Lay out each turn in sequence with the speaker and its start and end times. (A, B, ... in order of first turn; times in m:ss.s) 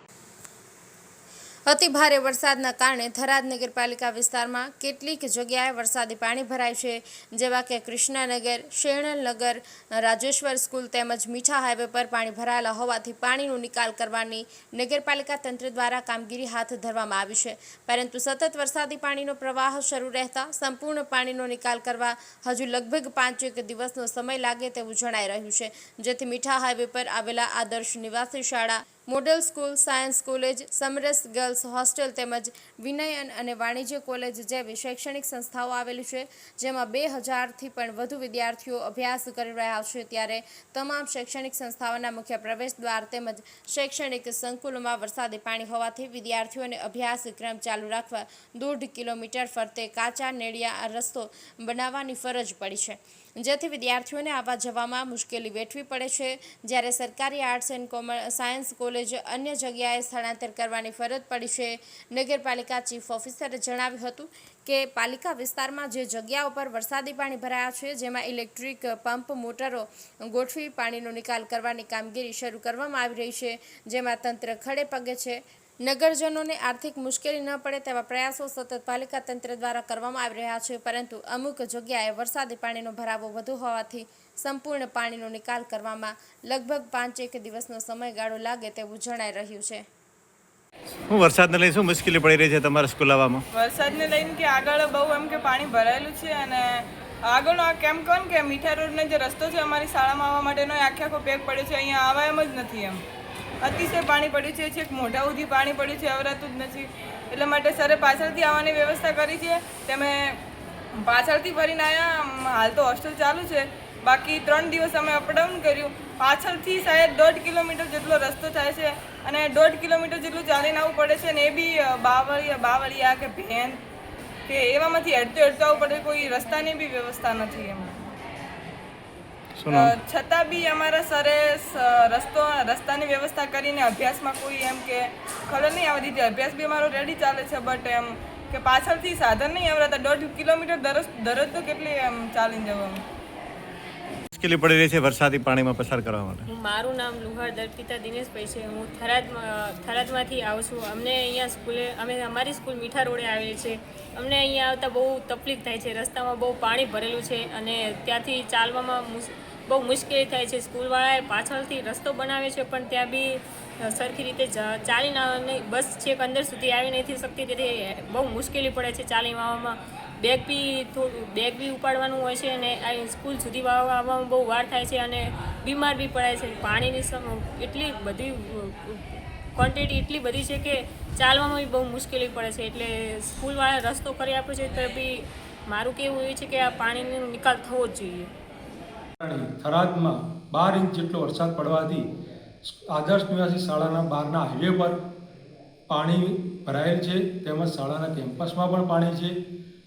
0:01.7-1:29.8 A
1:31.1-1:33.4 B
1:33.6-1:43.0 C
1:43.6-1:50.4 C
1:51.0-2:03.8 C
2:04.5-2:08.1 C
2:09.6-2:09.9 B
2:09.8-2:23.0 C
2:24.4-2:26.5 B
2:26.5-3:08.3 D
3:09.2-3:12.1 E
3:12.6-3:15.0 E
3:15.9-3:19.4 E